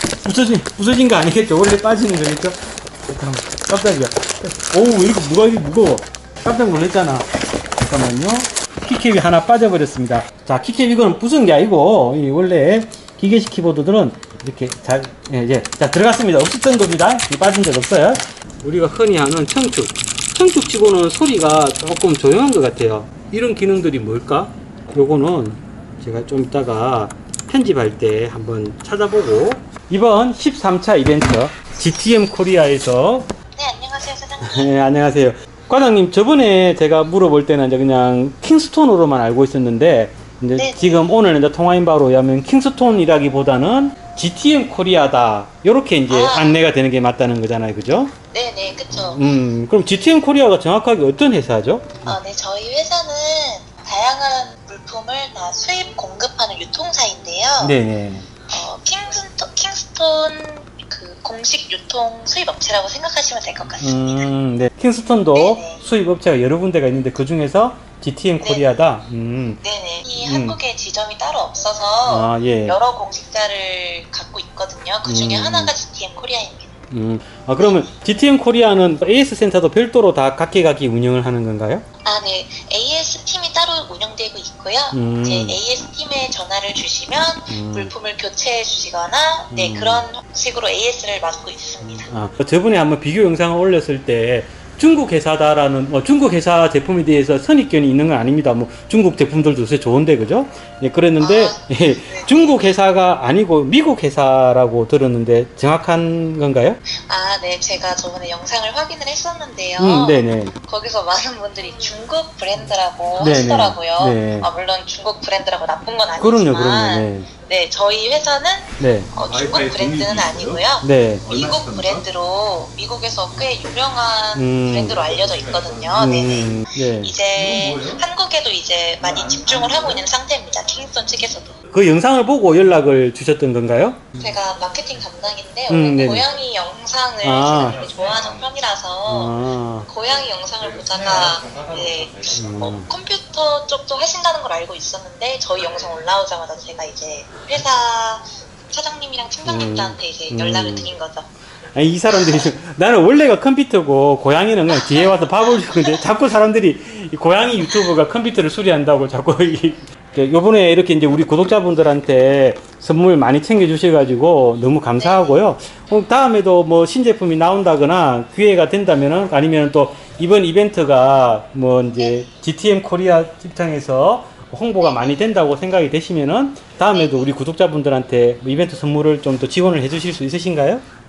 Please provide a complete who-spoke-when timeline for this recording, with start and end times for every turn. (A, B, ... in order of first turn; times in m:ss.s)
0:00.2-0:33.3 A
0:33.5-0:34.7 B
0:34.4-0:48.1 A
0:40.6-0:41.1 B
0:46.1-0:46.6 B
0:48.3-0:49.2 B
0:48.9-0:52.2 A
0:52.0-0:57.8 B
0:57.6-0:58.3 A
0:58.5-1:04.3 B
1:03.8-1:09.6 A
1:05.3-1:05.8 B
1:08.4-1:08.7 B
1:09.6-1:16.8 B
1:10.2-1:10.6 A
1:12.1-1:12.8 A
1:15.0-1:15.7 A
1:16.9-1:21.8 A
1:17.6-1:17.9 B
1:22.0-1:32.1 B
1:24.9-1:25.6 A
1:27.5-1:27.9 A
1:29.5-1:30.0 A
1:31.8-1:46.8 A
1:41.2-1:42.8 B
1:46.9-2:11.6 B
1:49.8-1:50.5 A
1:53.2-1:54.5 A
1:56.2-1:57.3 A
1:58.8-1:59.1 A
2:00.8-2:01.3 A
2:04.3-2:05.0 A
2:06.0-2:07.2 A
2:11.7-2:14.0 A
2:14.2-2:31.3 B
2:15.7-2:16.2 A
2:17.2-2:17.8 A
2:19.0-2:19.9 A
2:22.3-2:22.9 A
2:29.4-2:30.9 A
2:31.7-3:00.8 A
2:34.7-2:36.0 B
2:45.0-2:45.4 B
2:54.8-2:55.3 B
2:56.9-2:57.3 B